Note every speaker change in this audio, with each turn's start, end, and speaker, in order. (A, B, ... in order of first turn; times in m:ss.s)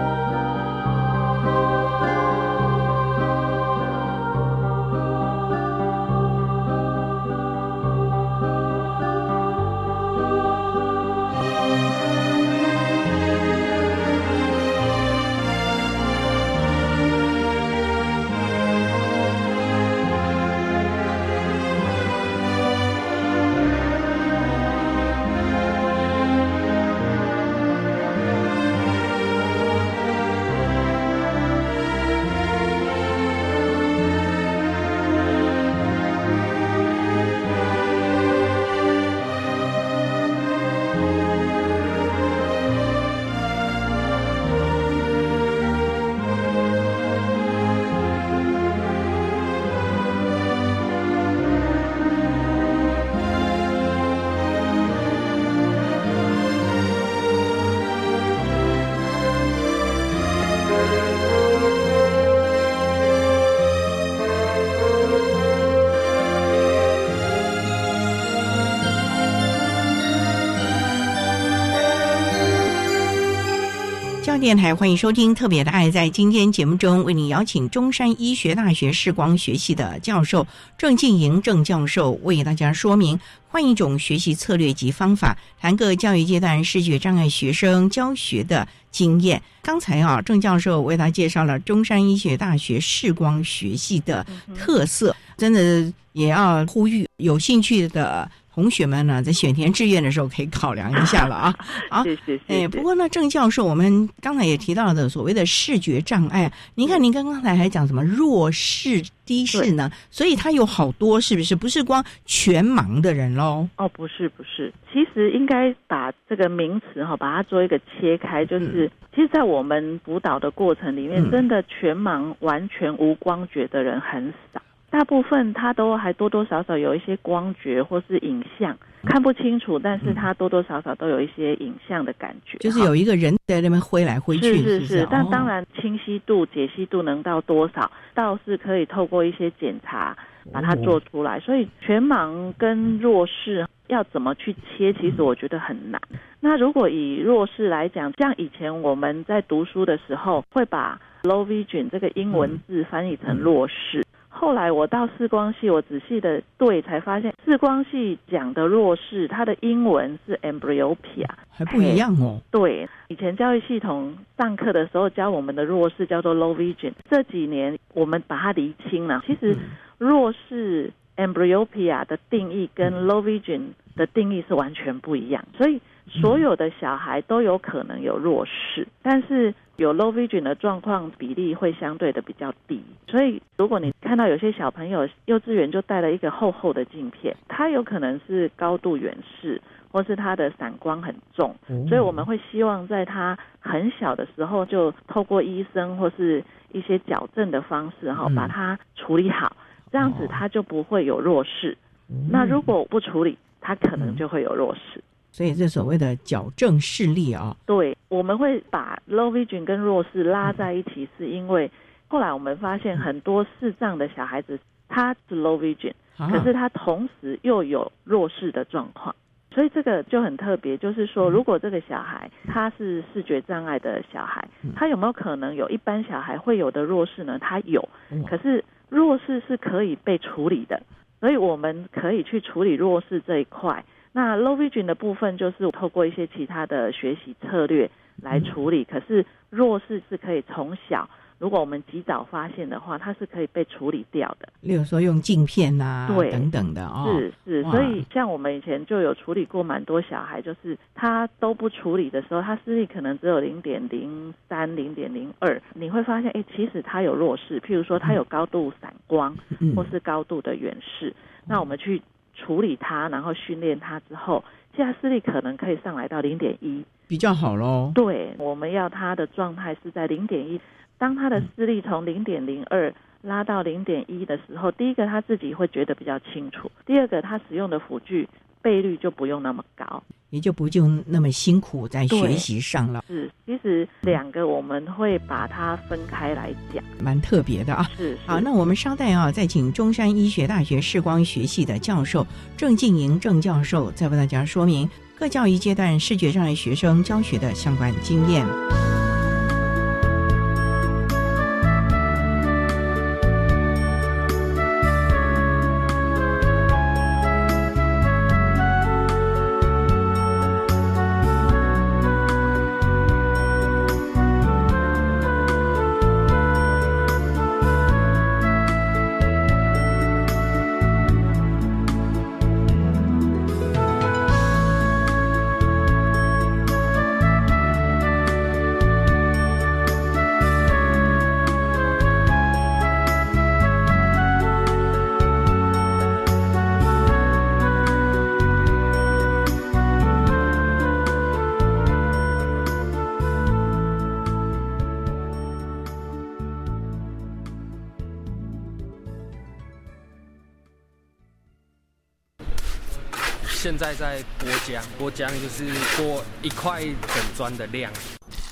1:14.2-1:53.7 A
1:34.3-1:34.7 B
1:40.9-1:42.8 B
1:53.8-2:12.9 B
1:58.6-1:58.9 A
2:01.2-2:01.4 A
2:12.6-2:15.5 A
2:14.4-3:25.0 B
2:20.5-2:21.0 A
2:32.3-2:32.6 A
2:41.4-2:42.4 A
2:49.5-2:49.7 A
2:56.1-2:56.4 A
3:11.7-3:12.2 A
3:18.2-3:18.5 A
3:20.0-3:20.4 A
3:22.1-3:22.7 A
3:25.3-3:27.6 A
3:27.7-4:04.5 B
3:36.2-3:36.5 A
4:04.6-4:08.0 A
4:06.1-4:06.5 B
4:07.0-4:26.9 B
4:19.5-4:19.9 A
4:27.1-4:28.0 A
4:28.0-4:40.0 B
4:40.3-4:43.0 A
4:42.1-4:42.5 B
4:43.1-4:46.9 B
4:47.0-4:58.6 A
4:47.9-4:48.5 B
5:53.5-5:58.0 C